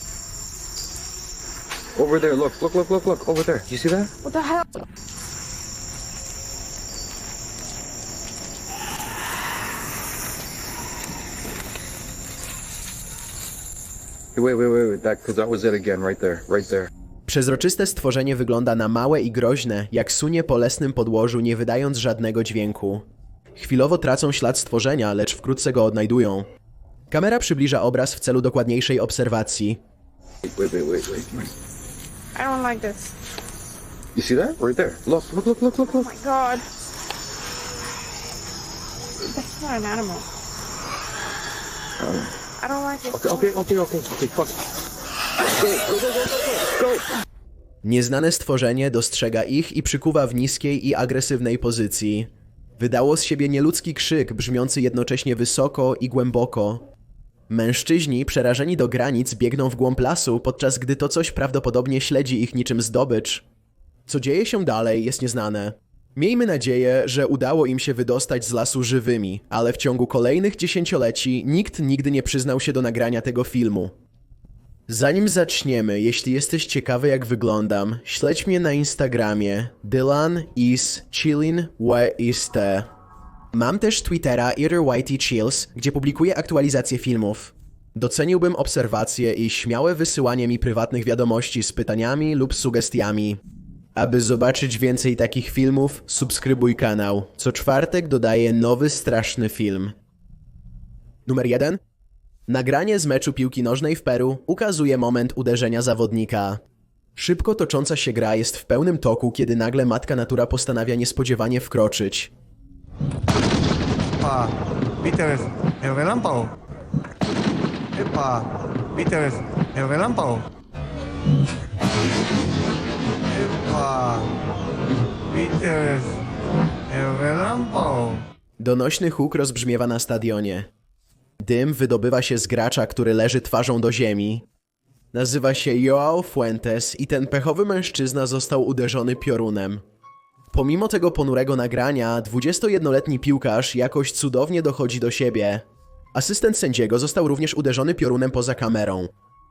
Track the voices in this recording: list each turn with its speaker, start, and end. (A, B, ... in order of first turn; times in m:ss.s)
0:02.0-0:04.1 A
0:04.2-0:04.6 B
0:14.4-0:16.9 A
0:17.3-0:26.5 C
0:27.1-0:29.8 C
0:30.4-0:31.5 A
0:32.4-0:33.1 B
0:34.2-0:36.1 A
0:35.8-0:36.6 B
0:39.2-0:40.3 B
0:42.0-0:42.3 A
0:42.6-0:43.5 B
0:43.1-0:44.6 A
0:45.6-0:47.0 A
0:47.8-0:56.9 C
0:57.5-1:03.4 C
1:04.1-1:13.9 C
1:14.9-1:22.9 C
1:23.5-1:33.4 C
1:34.0-1:40.0 C
1:41.3-1:41.8 C
1:42.5-1:46.6 C
1:47.2-1:52.3 C
1:54.2-1:56.5 D
1:58.0-2:00.5 D
2:03.3-2:04.3 D
2:05.3-2:06.2 D
2:06.9-2:08.2 D
2:08.6-2:10.7 C
2:11.4-2:14.4 C
2:15.1-2:19.8 C
2:20.5-2:29.1 C